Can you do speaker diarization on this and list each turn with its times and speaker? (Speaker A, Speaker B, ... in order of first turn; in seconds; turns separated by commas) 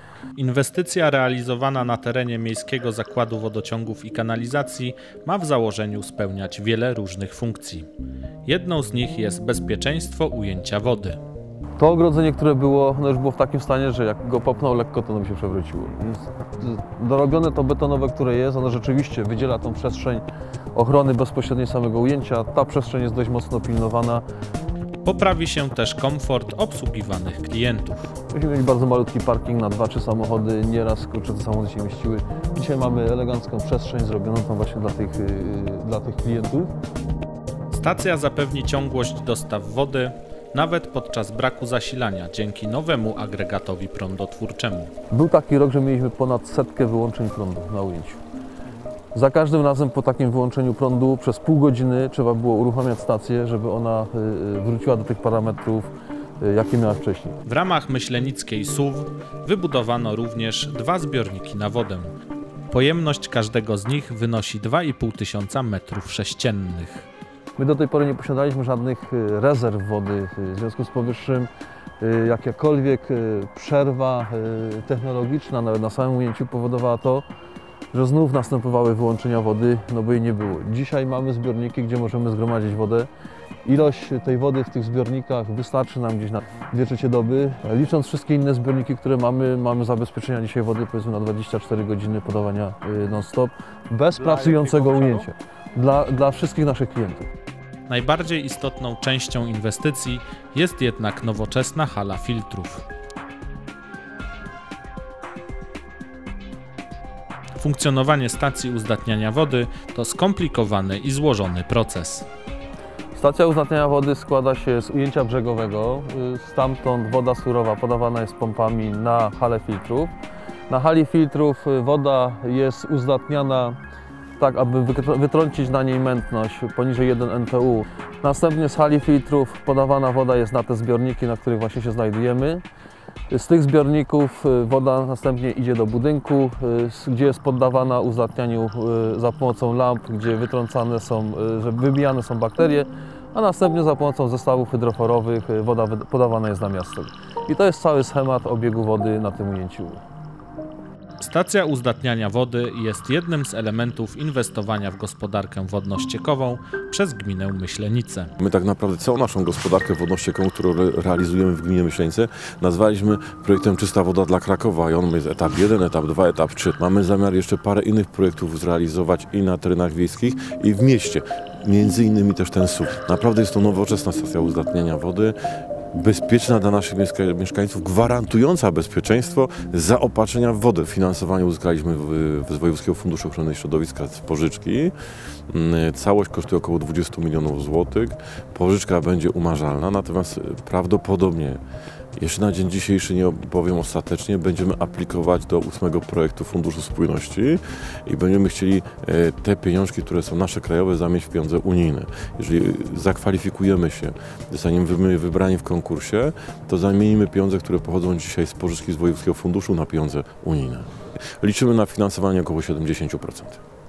Speaker A: 0.4-7.9, Speaker A: 8.5-11.2, Speaker B: 11.8-24.2, Speaker A: 25.0-28.1, Speaker B: 28.3-36.7, Speaker A: 37.7-44.9, Speaker B: 45.1-48.2, Speaker B: 49.1-55.9, Speaker B: 56.4-57.4, Speaker A: 57.5-62.1, Speaker A: 62.7-67.1, Speaker B: 67.6-71.5, Speaker B: 72.0-77.2, Speaker B: 77.9-83.1, Speaker B: 83.7-97.2, Speaker A: 94.3-95.2, Speaker A: 97.9-102.9, Speaker A: 107.6-112.3, Speaker B: 113.1-120.1, Speaker B: 120.7-123.8, Speaker B: 124.4-132.6, Speaker B: 133.3-150.0, Speaker A: 151.2-158.3, Speaker C: 158.4-175.3, Speaker C: 175.9-184.9, Speaker C: 185.5-191.6, Speaker C: 192.2-213.6